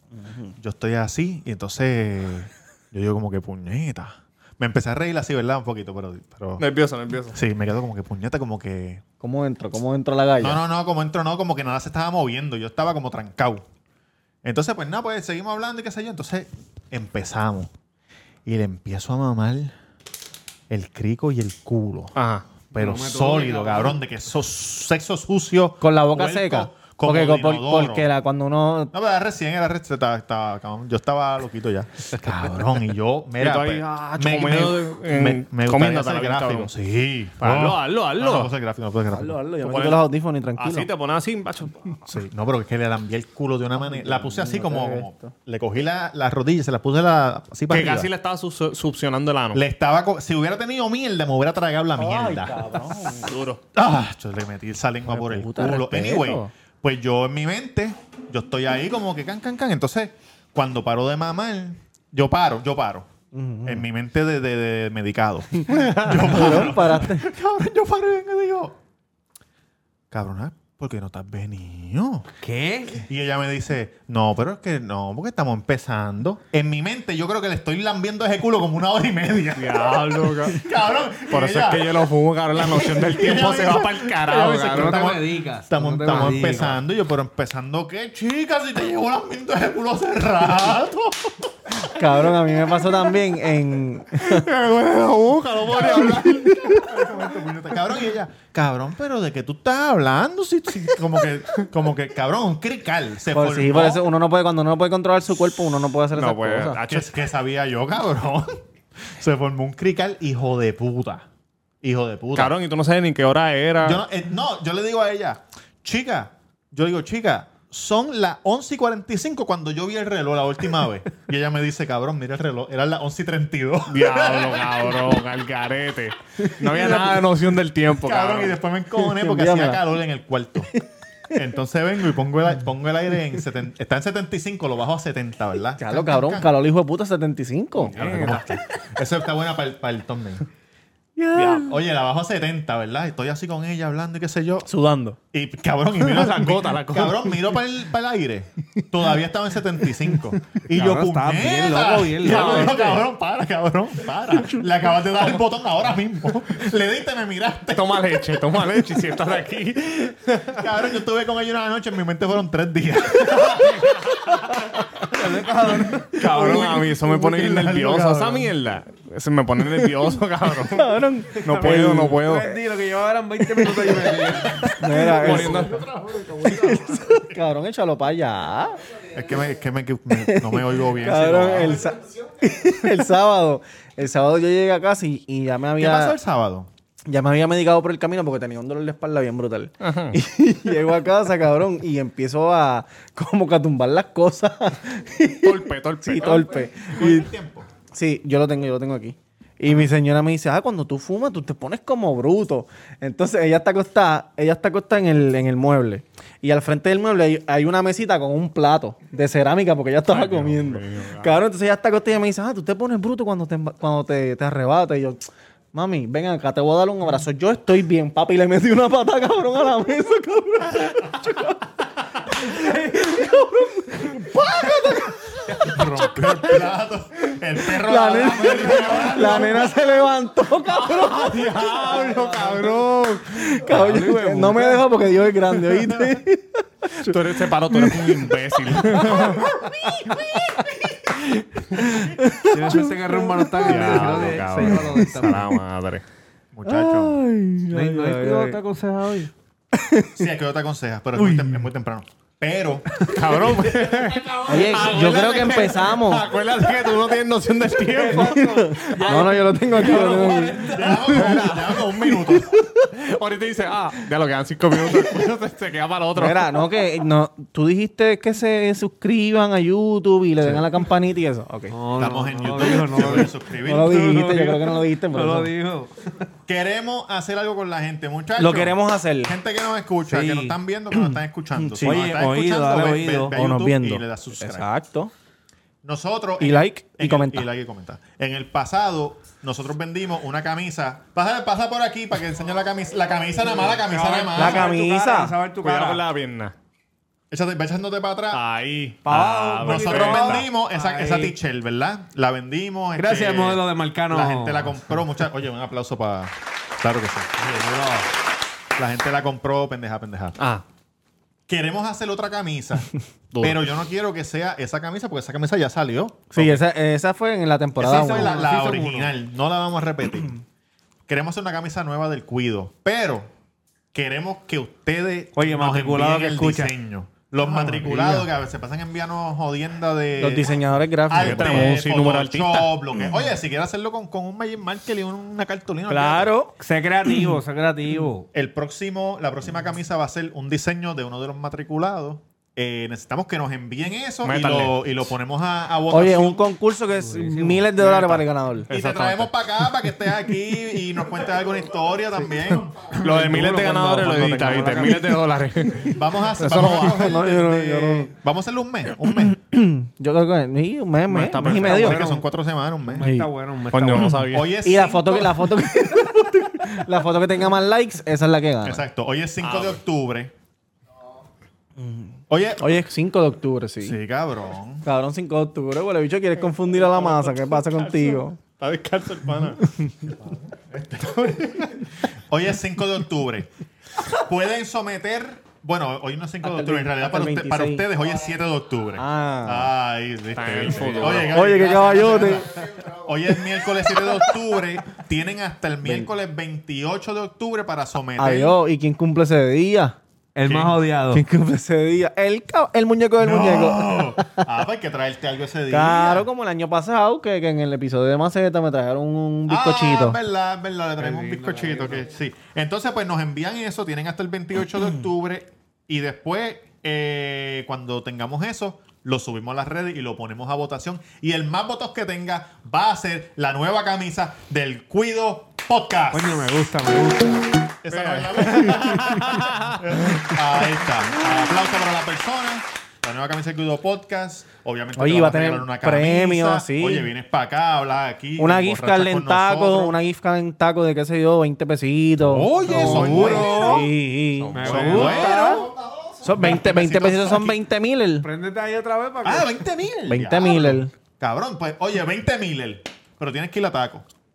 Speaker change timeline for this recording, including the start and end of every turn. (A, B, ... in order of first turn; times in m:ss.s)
0:00.1-0:00.6 A
0:00.6-0:06.6 B
0:06.6-0:07.4 C
0:07.3-0:09.0 B
0:09.2-0:10.6 A
0:10.4-0:13.6 B
0:14.4-0:17.7 B
0:18.4-0:19.7 B
0:20.7-0:22.2 B
0:22.2-0:22.5 C
0:22.7-0:24.0 D
0:22.7-0:28.1 B
0:25.8-0:28.9 A
0:28.9-0:39.4 B
0:33.4-0:36.7 C
0:37.4-0:38.5 C
0:39.1-0:40.9 A
0:39.6-0:42.1 C
0:42.1-0:48.1 B
0:43.8-0:45.3 A
0:47.7-0:49.6 C
0:49.5-0:52.7 B
0:52.0-0:53.3 A
0:53.1-0:53.6 C
0:53.7-1:03.1 B
0:55.1-0:56.5 A
1:03.3-1:03.9 A
1:03.6-1:08.8 B
1:06.0-1:07.3 A
1:10.1-1:12.2 B
1:12.4-1:13.0 D
1:13.0-1:22.0 B
1:19.6-1:20.6 C
1:21.3-1:25.2 C
1:22.5-1:31.5 B
1:24.3-1:26.8 D
1:26.1-1:26.5 C
1:31.9-1:34.5 A
1:34.3-1:36.7 C
1:35.6-1:44.1 B
1:35.8-1:36.7 A
1:43.3-1:46.8 A
1:46.1-1:47.1 C
1:46.9-1:51.3 B
1:51.8-1:52.6 B
1:52.4-1:54.0 C
1:53.8-2:05.2 B
2:03.9-2:08.6 C
2:06.6-2:07.3 B
2:07.9-2:10.7 B
2:08.9-2:09.8 A
2:11.3-2:16.5 B
2:15.8-2:17.9 A
2:17.8-2:18.6 C
2:18.0-2:20.4 B
2:21.2-2:21.7 A
2:21.3-2:24.7 B
2:24.7-2:25.2 A
2:25.3-2:38.4 B
2:26.0-2:27.4 C
2:30.7-2:33.0 D
2:37.7-2:40.6 C
2:40.6-2:44.6 B
2:45.1-2:46.3 D
2:46.2-2:48.5 B
2:46.2-2:52.6 C
2:50.7-2:52.2 A
2:51.5-2:55.8 D
2:54.8-2:55.7 A
2:55.1-2:55.8 C
2:55.6-2:57.3 B
2:56.4-2:58.8 A
2:59.1-3:01.9 B
3:00.2-3:06.2 A
3:05.8-3:06.7 B
3:07.1-3:17.3 A
3:09.8-3:10.2 C
3:15.4-3:16.7 C
3:16.1-3:17.7 B
3:17.9-3:46.6 A
3:30.1-3:31.3 C
3:45.6-3:49.7 B
3:47.7-3:52.2 A
3:51.0-3:53.4 C
3:51.5-3:52.7 D
3:53.4-3:57.2 A
3:53.6-3:54.9 D
3:57.0-3:59.5 C
3:57.7-3:58.0 A
3:58.8-4:00.9 A
4:01.9-4:05.0 A
4:02.5-4:05.4 D
4:03.6-4:06.0 C
4:06.5-4:07.2 B
4:06.6-4:08.6 A
4:07.7-4:09.3 D
4:09.7-4:10.2 A
4:10.2-4:12.9 B
4:11.2-4:11.5 D
4:13.1-4:18.5 C
4:13.1-4:13.6 D
4:14.4-4:16.2 A
4:17.9-4:21.4 D
4:18.2-4:21.5 A
4:20.7-4:22.5 B
4:22.9-4:26.7 C
4:26.2-4:31.8 A
4:31.7-4:36.0 D
4:32.0-4:34.2 B
4:33.6-4:35.5 A
4:36.5-4:44.7 B
4:38.4-4:39.4 A
4:40.1-4:40.6 D
4:40.9-4:42.0 A
4:41.8-4:43.4 D
4:43.3-4:45.1 A
4:45.8-4:54.7 B
4:46.4-4:47.5 A
4:53.4-4:56.0 D
4:54.4-4:55.3 A
4:55.6-4:56.5 C
4:57.3-4:58.4 B
4:58.3-5:00.5 C
4:59.1-5:01.4 D
4:59.6-5:07.3 B
5:03.0-5:04.7 D
5:07.4-5:08.1 D
5:08.8-5:10.4 B
5:10.4-5:10.6 C
5:11.5-5:16.6 B
5:13.3-5:13.6 C
5:16.3-5:18.4 A
5:17.8-5:20.3 B
5:18.0-5:19.1 D
5:21.1-5:23.3 B
5:23.9-5:36.4 B
5:25.4-5:26.7 D
5:27.6-5:28.2 D
5:30.2-5:31.8 A
5:31.1-5:32.7 C
5:35.9-5:36.6 A
5:36.6-5:38.3 D
5:38.3-5:46.4 B
5:44.2-5:45.1 C
5:45.9-5:48.7 A
5:46.9-5:48.2 D
5:48.7-5:49.3 C
5:48.7-5:55.0 B
5:53.0-5:57.1 C
5:53.0-5:53.7 D
5:54.4-5:54.9 D
5:55.9-5:59.4 B
5:56.4-5:58.1 A
5:59.0-6:02.0 A
6:01.1-6:02.0 C
6:01.5-6:02.3 D
6:01.5-6:03.1 B
6:02.8-6:04.3 D
6:03.0-6:03.3 A
6:03.7-6:04.5 C
6:04.3-6:05.6 B
6:04.6-6:08.8 A
6:08.6-6:10.3 B
6:09.4-6:09.8 C
6:11.8-6:14.0 A
6:12.3-6:12.7 B
6:13.8-6:14.8 B
6:14.8-6:18.4 A
6:16.8-6:19.7 C
6:20.5-6:23.5 B
6:24.1-6:38.6 B
6:26.4-6:27.9 A
6:29.0-6:29.7 A
6:30.4-6:31.4 C
6:31.0-6:32.5 A
6:38.2-6:40.0 A
6:40.4-6:41.2 D
6:40.4-6:40.8 B
6:41.1-6:44.4 A
6:43.2-6:46.3 B
6:45.7-6:50.2 A
6:49.5-7:06.5 B
6:51.0-6:52.1 D
7:06.1-7:07.6 D
7:07.8-7:20.0 B
7:07.9-7:09.1 C
7:15.0-7:17.1 A
7:18.4-7:25.3 A
7:22.2-7:23.9 B
7:22.7-7:23.9 D
7:22.8-7:23.7 C
7:24.4-7:25.3 C
7:24.6-7:25.7 D
7:24.6-7:27.6 B
7:26.2-7:28.3 A
7:28.2-7:29.6 D
7:29.2-7:34.0 B
7:30.1-7:30.9 A